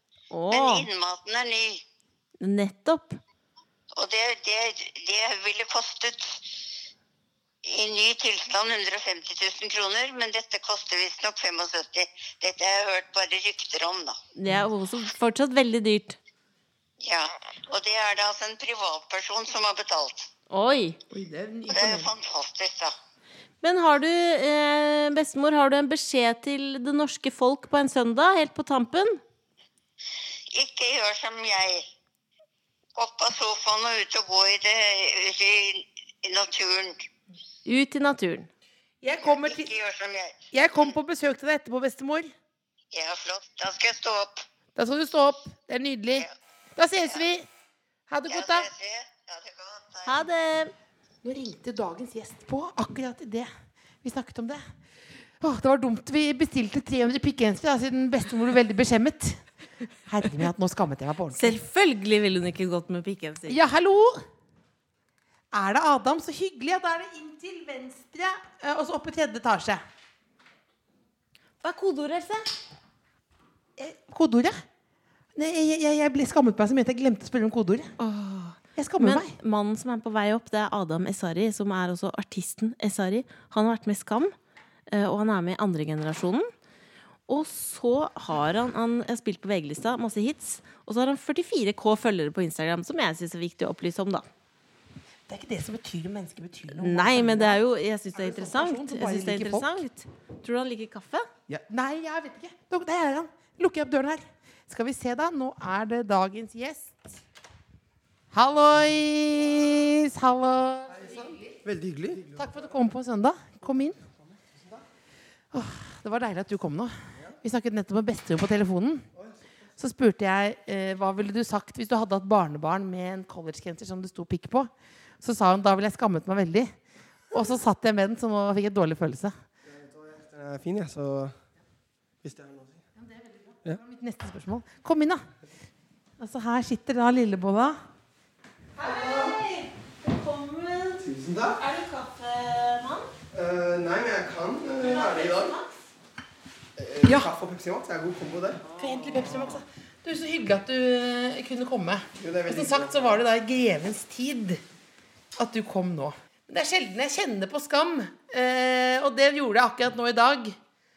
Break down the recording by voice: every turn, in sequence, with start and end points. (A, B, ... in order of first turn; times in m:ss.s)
0:00.3-0:00.9 A
0:00.5-0:01.8 B
0:02.4-0:03.2 A
0:03.9-0:06.5 B
0:07.6-0:14.2 B
0:14.4-0:16.2 A
0:17.0-0:20.3 B
0:20.5-0:21.0 A
0:21.1-0:22.1 C
0:21.7-0:22.9 B
0:23.6-0:29.2 A
0:30.5-0:31.8 B
0:33.0-0:37.0 B
0:37.6-0:38.5 A
0:39.0-0:39.7 C
0:39.2-0:40.9 B
0:40.5-0:42.3 C
0:42.9-0:44.4 B
0:44.8-0:47.5 C
0:48.1-0:48.7 C
0:48.3-0:50.2 B
0:50.0-0:50.7 A
0:51.2-0:53.5 C
0:54.0-0:54.6 C
0:55.4-0:59.4 C
1:00.0-1:01.5 C
1:01.3-1:03.6 A
1:03.5-1:04.2 C
1:05.5-1:09.8 C
1:11.6-1:12.5 A
1:13.8-1:14.6 C
1:15.3-1:17.9 C
1:18.0-1:24.3 A
1:18.8-1:19.3 C
1:24.9-1:26.5 A
1:27.3-1:34.2 A
1:35.3-1:37.6 C
1:36.8-1:41.3 A
1:38.1-1:39.8 C
1:41.5-1:47.2 C
1:48.3-1:51.5 C
1:51.6-1:52.4 D
1:52.3-1:54.0 C
1:55.5-1:59.1 C
1:59.8-2:06.7 C
2:07.3-2:09.3 C
2:09.6-2:11.3 D
2:12.2-2:12.8 D
2:13.1-2:15.2 C
2:16.2-2:17.8 C
2:18.8-2:23.1 A
2:18.8-2:19.4 D
2:21.0-2:21.6 D
2:23.3-2:25.5 D
2:24.8-2:25.7 A
2:26.8-2:28.6 D
2:27.0-2:27.3 C
2:28.6-2:29.6 A
2:28.8-2:34.6 C
2:32.2-2:33.2 D
2:35.4-2:40.6 C